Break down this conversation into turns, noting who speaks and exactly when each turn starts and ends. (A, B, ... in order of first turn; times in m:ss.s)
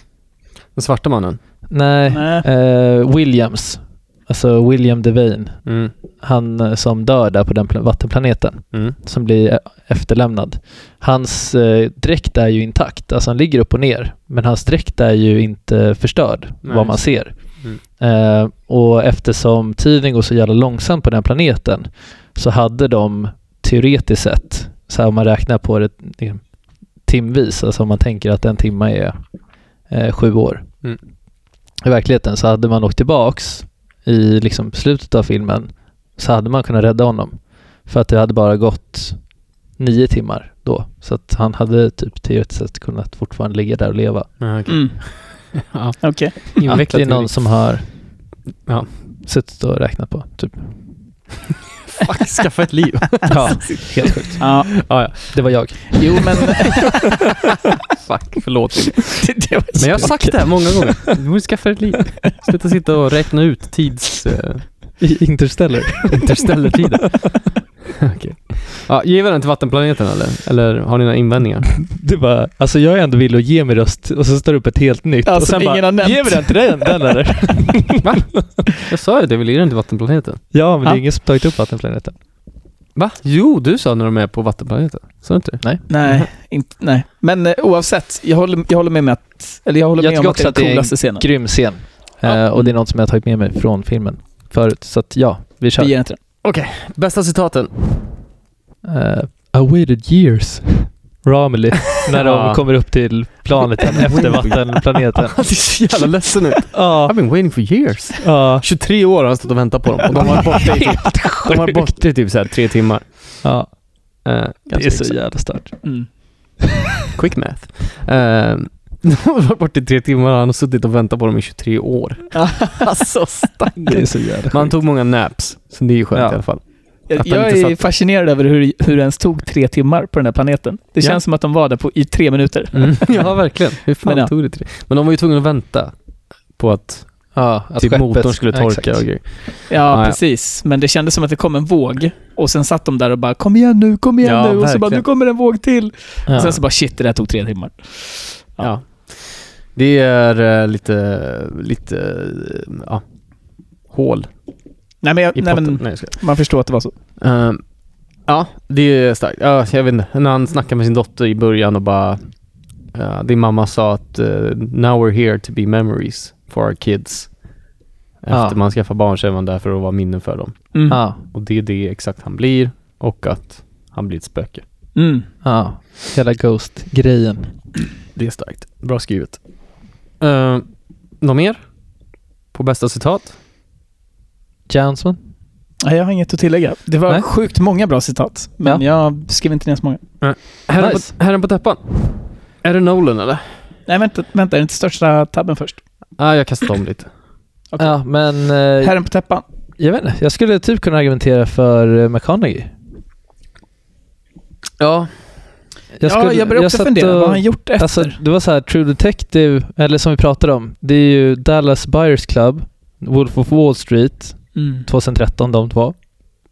0:00.7-0:01.4 A
0:01.7-0:05.6 B
0:02.1-0:02.4 C
0:05.6-0:05.9 A
0:06.2-0:26.5 B
0:16.6-0:17.8 A
0:27.0-0:29.2 B
0:29.9-0:30.8 B
0:31.8-0:39.2 B
0:39.8-0:44.4 B
0:44.4-0:47.4 A
0:44.7-0:46.6 C
0:46.7-0:47.9 B
0:49.2-0:50.8 B
0:51.9-0:55.9 A
0:53.3-0:56.2 B
0:54.4-0:54.7 C
0:56.0-0:57.0 C
0:57.9-1:04.8 A
0:59.2-1:01.1 C
1:00.0-1:00.3 B
1:05.0-1:06.2 B
1:06.1-1:07.5 A
1:08.0-1:11.8 A
1:11.8-1:18.2 B
1:15.2-1:16.9 C
1:18.0-1:20.4 A
1:20.5-1:22.2 B
1:23.0-1:26.3 A
1:25.9-1:31.6 C
1:30.0-1:35.9 B
1:32.3-1:32.7 C
1:35.8-1:36.2 C
1:36.4-1:37.7 A
1:38.8-1:45.8 B
1:42.1-1:43.0 A
1:43.9-1:53.4 A
1:46.7-1:48.7 B
1:50.2-1:51.9 B
1:50.6-1:51.1 C
1:53.4-1:56.1 B
1:54.2-1:55.1 A
1:55.8-1:56.6 C
1:57.1-2:04.0 A
2:02.3-2:03.9 C
2:03.8-2:04.8 B
2:04.5-2:07.8 A
2:06.1-2:06.4 B
2:07.1-2:13.2 C
2:12.7-2:15.9 A
2:14.0-2:14.3 C
2:16.5-2:20.2 A
2:17.3-2:19.2 B
2:19.7-2:28.7 C
2:24.2-2:25.0 A
2:26.3-2:26.6 B
2:28.6-2:33.0 A
2:33.9-2:34.3 A
2:35.0-2:36.9 C
2:35.3-2:36.2 A
2:37.2-2:37.6 A
2:38.2-2:42.4 A
2:42.9-2:47.4 A
2:48.2-2:54.6 A
2:48.3-2:48.6 B
2:50.7-2:51.0 C
2:50.9-2:51.2 B
2:54.9-2:55.3 C
2:55.4-2:57.5 B
2:58.1-2:59.4 A
3:00.2-3:01.7 A
3:02.5-3:03.4 A
3:04.7-3:05.2 B
3:05.8-3:10.0 C
3:10.2-3:13.5 A
3:10.8-3:11.1 B
3:13.9-3:15.8 C
3:16.2-3:17.1 A
3:17.7-3:18.2 C
3:17.8-3:19.0 B
3:18.8-3:19.4 C
3:19.8-3:22.7 B
3:24.8-3:25.1 A
3:26.0-3:36.0 B
3:26.0-3:28.2 C
3:34.5-3:34.9 C